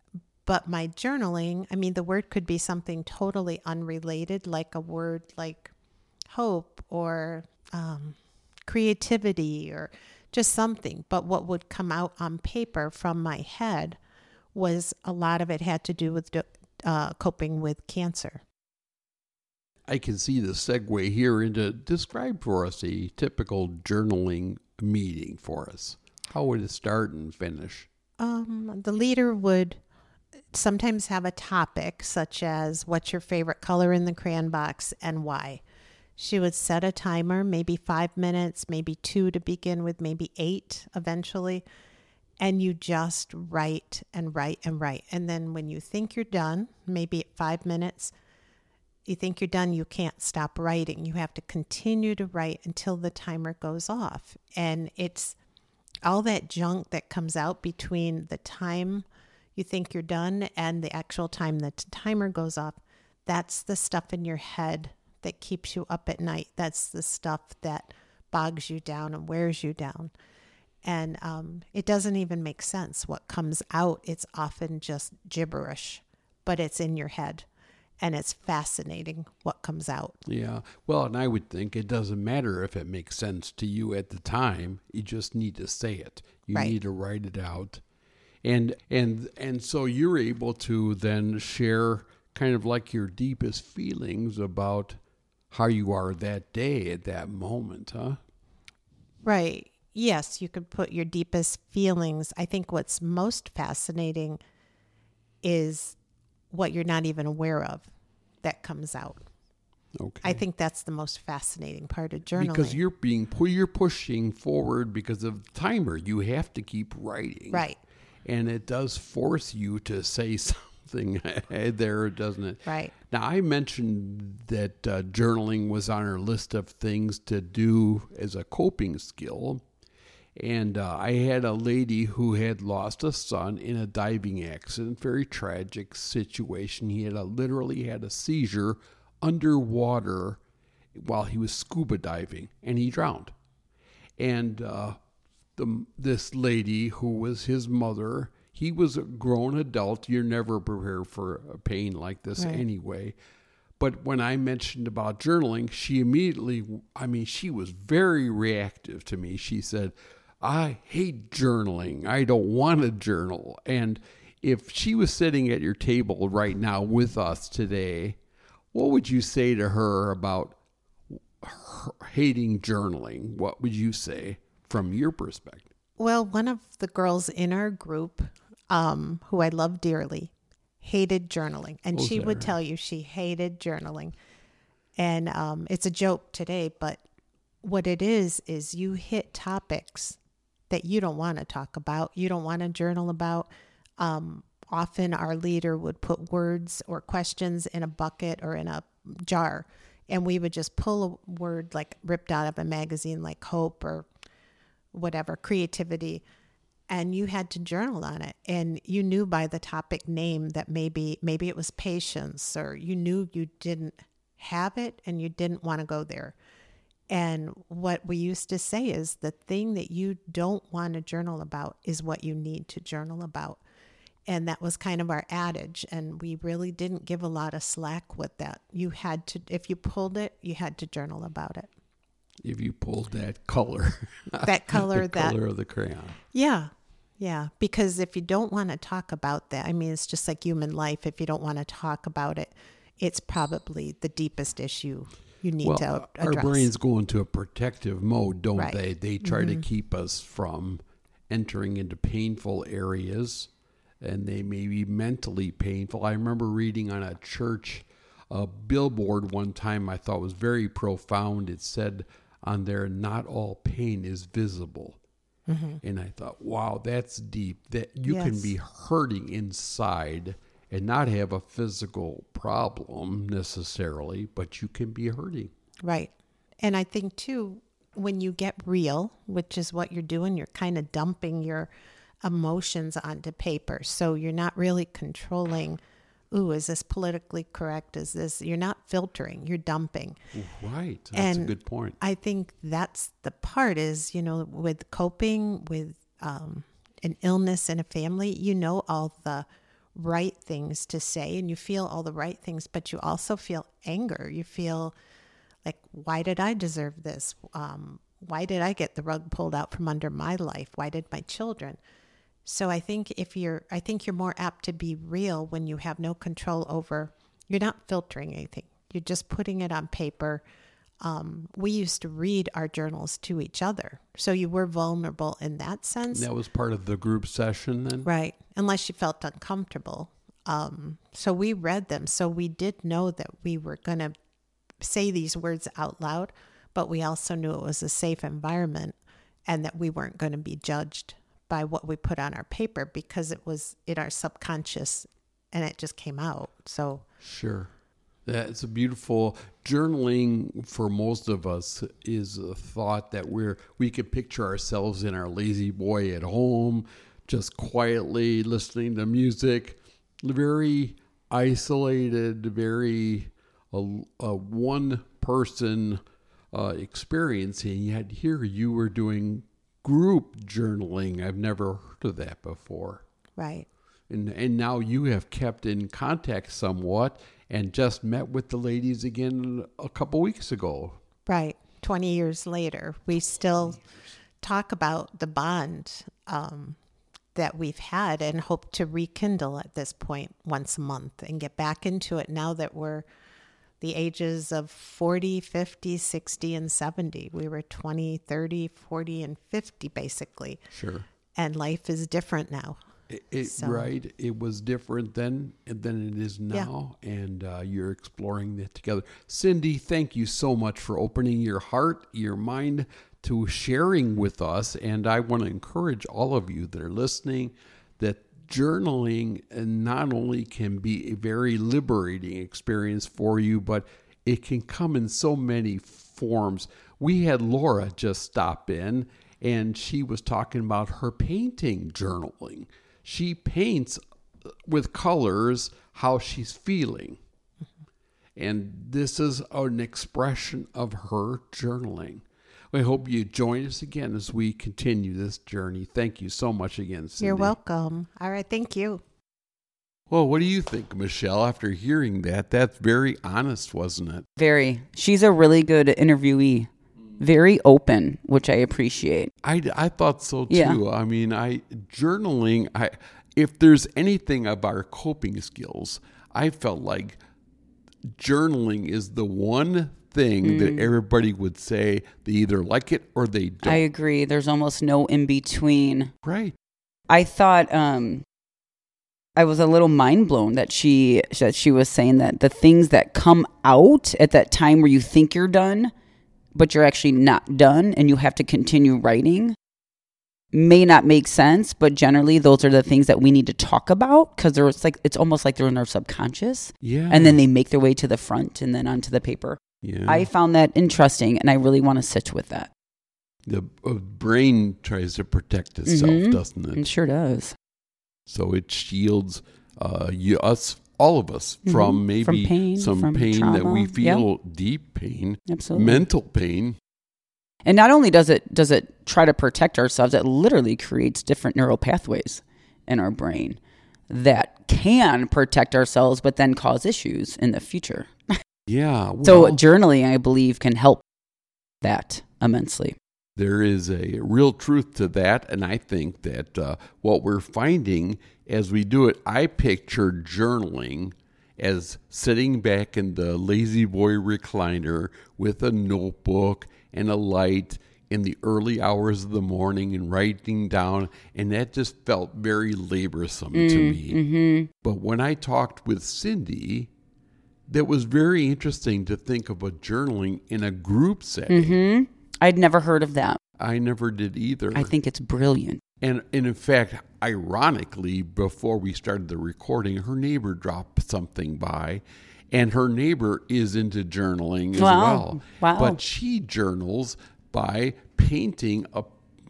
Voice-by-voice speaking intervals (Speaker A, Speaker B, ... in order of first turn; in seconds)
Speaker A: 0.5-5.7, 6.3-14.0, 14.5-18.4, 28.2-29.8, 30.5-35.6, 36.2-41.6, 42.4-48.1, 49.0-55.4, 56.0-70.1, 70.8-77.5, 78.0-80.2, 99.2-104.4, 105.4-106.0, 106.5-107.9, 108.4-109.2, 110.2-112.8, 117.5-117.8, 122.7-122.9, 152.4-152.6, 176.0-184.1, 185.0-187.0, 187.6-190.2, 190.7-204.1, 204.9-206.2, 206.9-216.3, 217.1-223.6, 224.3-231.7, 234.4-235.3, 236.3-246.7, 248.6-249.6, 265.5-265.8, 268.1-268.5, 275.8-281.7, 282.2-285.8, 286.3-290.2, 291.1-304.9, 305.6-311.8, 312.4-320.4, 321.0-326.3, 328.0-334.1, 334.8-338.9, 339.5-347.0, 373.4-373.7, 381.2-383.8, 384.4-386.8, 387.3-393.1, 393.8-400.6, 401.4-402.8, 403.4-403.9, 447.2-449.0
Speaker B: 19.9-27.9, 80.2-87.8, 88.4-95.0, 95.5-98.2, 110.0-110.4, 112.3-117.6, 118.2-129.6, 130.4-140.4, 140.9-143.3, 144.2-145.0, 145.6-153.1, 153.8-168.2, 168.7-170.6, 171.1-175.7, 181.9-182.6, 232.4-236.2, 245.6-265.0, 265.8-275.5, 290.3-292.0, 326.1-328.1, 347.2-347.7, 348.2-373.0, 374.1-381.0, 400.7-401.0, 403.1-437.2, 438.4-447.5, 450.1-454.2, 459.4-467.2, 468.1-473.8, 476.2-476.6, 496.8-497.4, 499.8-500.3, 503.4-506.8, 508.3-516.8, 528.7-529.6, 533.4-554.2, 554.8-556.9, 557.7-561.8, 563.6-564.9, 566.0-579.1
Speaker C: 454.4-459.3, 460.5-460.8, 470.4-470.9, 473.6-476.1, 477.1-478.2, 479.4-485.9, 486.5-489.6, 490.5-502.7, 505.9-507.6, 511.6-514.2, 515.5-516.0, 517.6-528.1, 529.2-531.0, 531.8-533.0, 553.5-554.7, 561.5-563.4, 564.7-565.8, 574.7-576.0